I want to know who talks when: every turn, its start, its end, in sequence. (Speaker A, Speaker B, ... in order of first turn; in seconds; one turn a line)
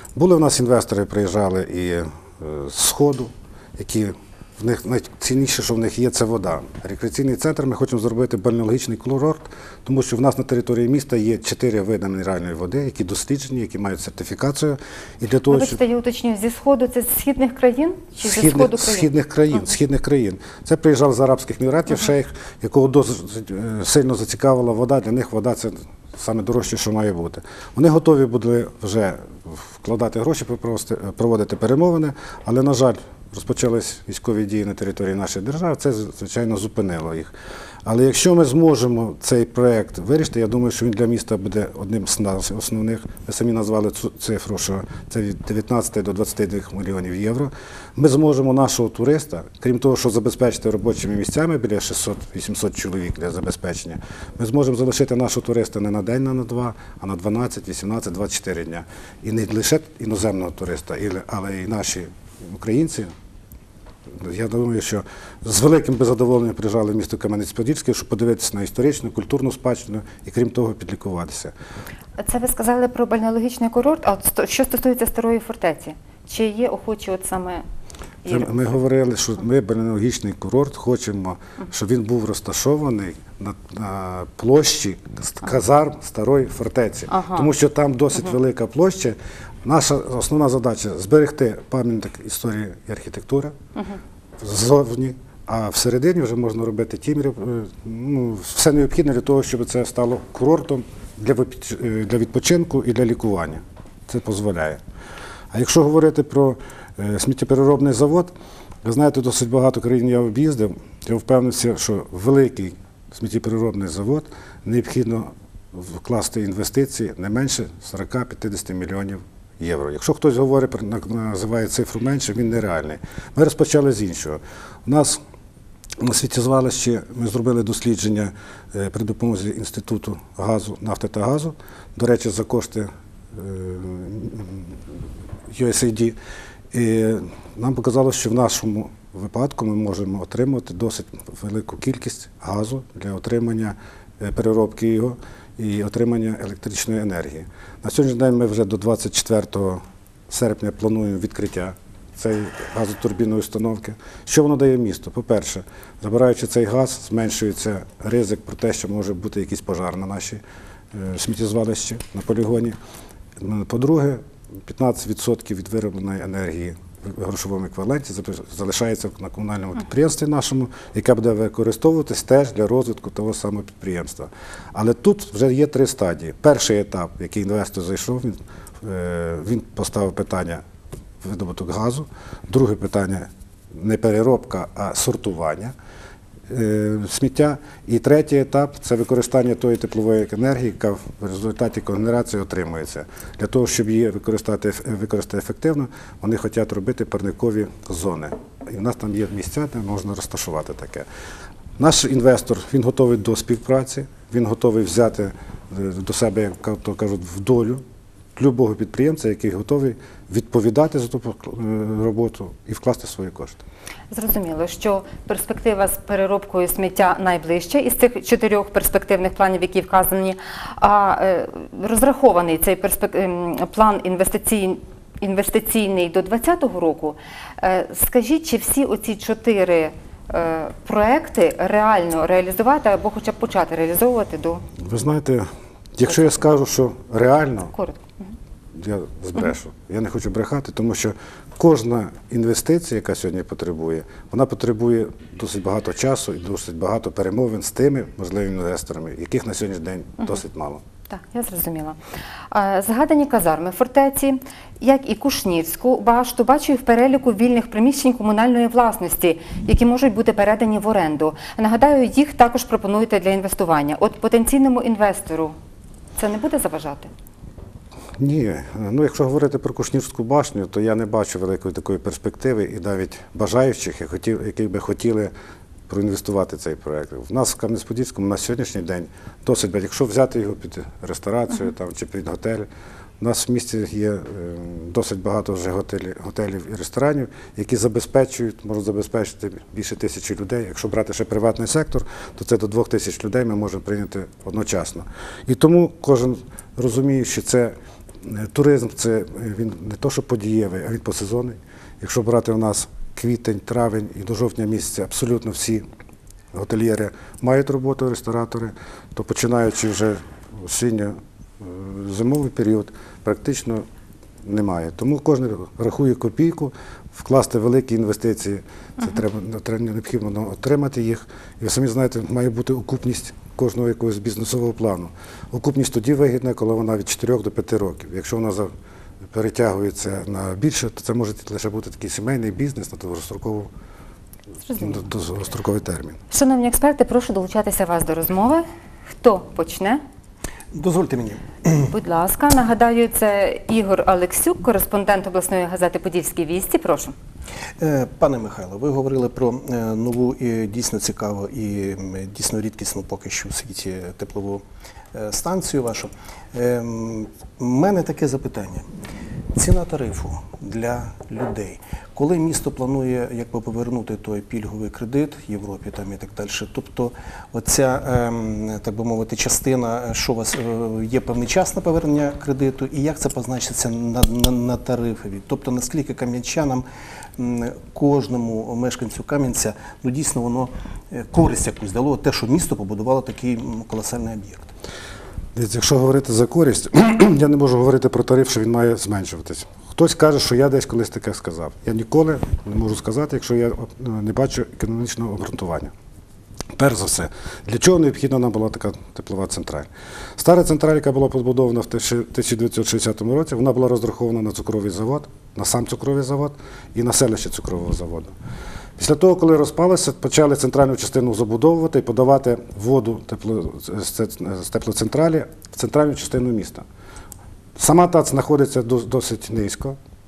Speaker A: 0.1-15.8
Speaker B: 15.5-19.7
Speaker A: 18.2-37.3
Speaker A: 37.9-63.1
Speaker A: 64.1-71.5
Speaker B: 72.2-77.6
Speaker B: 78.2-78.5
Speaker A: 78.3-93.6
Speaker B: 87.1-87.5
Speaker A: 94.4-104.8
Speaker A: 105.5-108.3
Speaker A: 108.8-125.2
Speaker A: 126.0-134.8
Speaker A: 135.5-136.2
Speaker A: 136.7-160.4
Speaker A: 160.9-162.8
Speaker A: 163.4-180.6
Speaker A: 181.2-185.7
Speaker A: 186.5-201.1
Speaker A: 201.8-207.8
Speaker A: 208.4-213.6
Speaker B: 214.1-234.6
Speaker A: 234.8-237.7
Speaker B: 237.7-238.3
Speaker A: 238.7-250.8
Speaker B: 251.1-252.0
Speaker B: 252.5-265.6
Speaker B: 266.2-267.1
Speaker A: 268.2-275.3
Speaker A: 275.9-282.7
Speaker A: 283.2-305.9
Speaker A: 306.5-313.9
Speaker A: 314.4-328.7
Speaker A: 329.3-333.7
Speaker B: 334.7-335.0
Speaker A: 334.8-336.2
Speaker B: 336.3-340.0
Speaker C: 340.7-341.9
Speaker B: 341.9-347.1
Speaker C: 347.8-358.9
Speaker C: 359.6-376.9
Speaker C: 377.4-384.7
Speaker A: 385.6-395.9
Speaker A: 396.7-408.3
Speaker A: 409.0-416.9
Speaker A: 417.8-420.0